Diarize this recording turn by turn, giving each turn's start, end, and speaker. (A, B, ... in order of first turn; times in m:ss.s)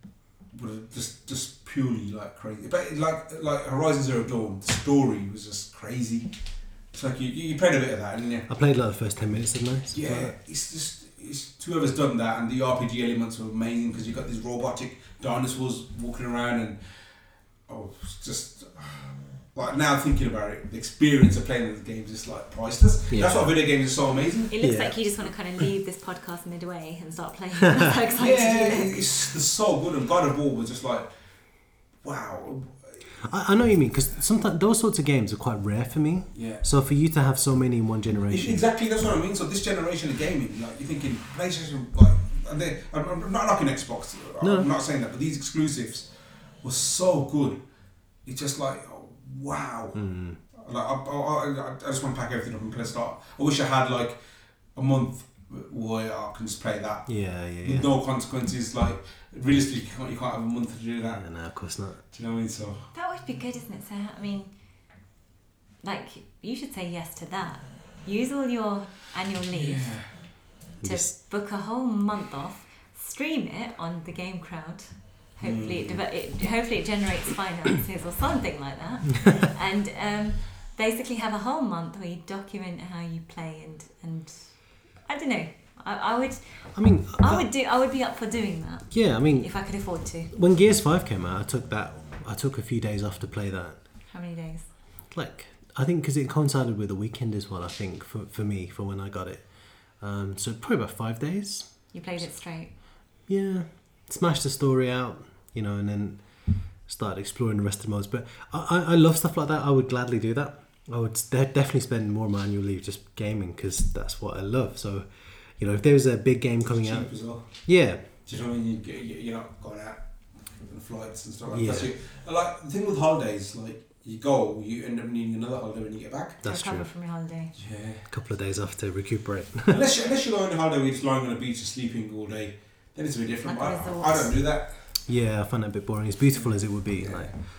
0:00.5-0:06.3 A
0:06.9-0:08.5 A
0:08.5-0:10.4 B
0:09.9-0:16.8 A
0:17.7-0:24.6 A
0:23.1-0:23.5 B
0:24.5-0:29.0 C
0:24.6-0:25.0 B
0:28.2-0:31.1 A
0:32.0-0:33.1 A
0:33.2-0:38.6 B
0:36.3-0:36.6 A
0:38.3-0:46.1 A
0:44.4-0:44.7 B
0:46.6-0:47.6 A
0:48.3-0:54.2 A
0:50.0-0:50.4 B
0:54.8-1:01.2 A
0:57.1-0:57.9 B
1:01.1-1:02.0 B
1:02.1-1:02.9 A
1:02.9-1:04.5 C
1:05.8-1:10.2 C
1:09.5-1:10.2 A
1:10.8-1:11.1 B
1:10.8-1:30.3 C
1:15.4-1:16.0 A
1:26.8-1:27.5 B
1:28.9-1:29.5 B
1:30.3-1:33.8 B
1:34.1-1:34.7 C
1:35.1-1:42.3 B
1:41.9-1:42.7 C
1:43.3-1:58.0 B
1:56.6-1:57.6 A
1:58.2-2:06.4 A
2:01.5-2:01.9 B
2:06.4-2:06.9 B
2:06.4-2:07.5 C
2:07.6-2:08.1 A
2:08.1-2:09.8 B
2:09.7-2:14.8 A
2:13.4-2:14.3 C
2:15.1-2:17.3 B
2:16.9-2:17.4 A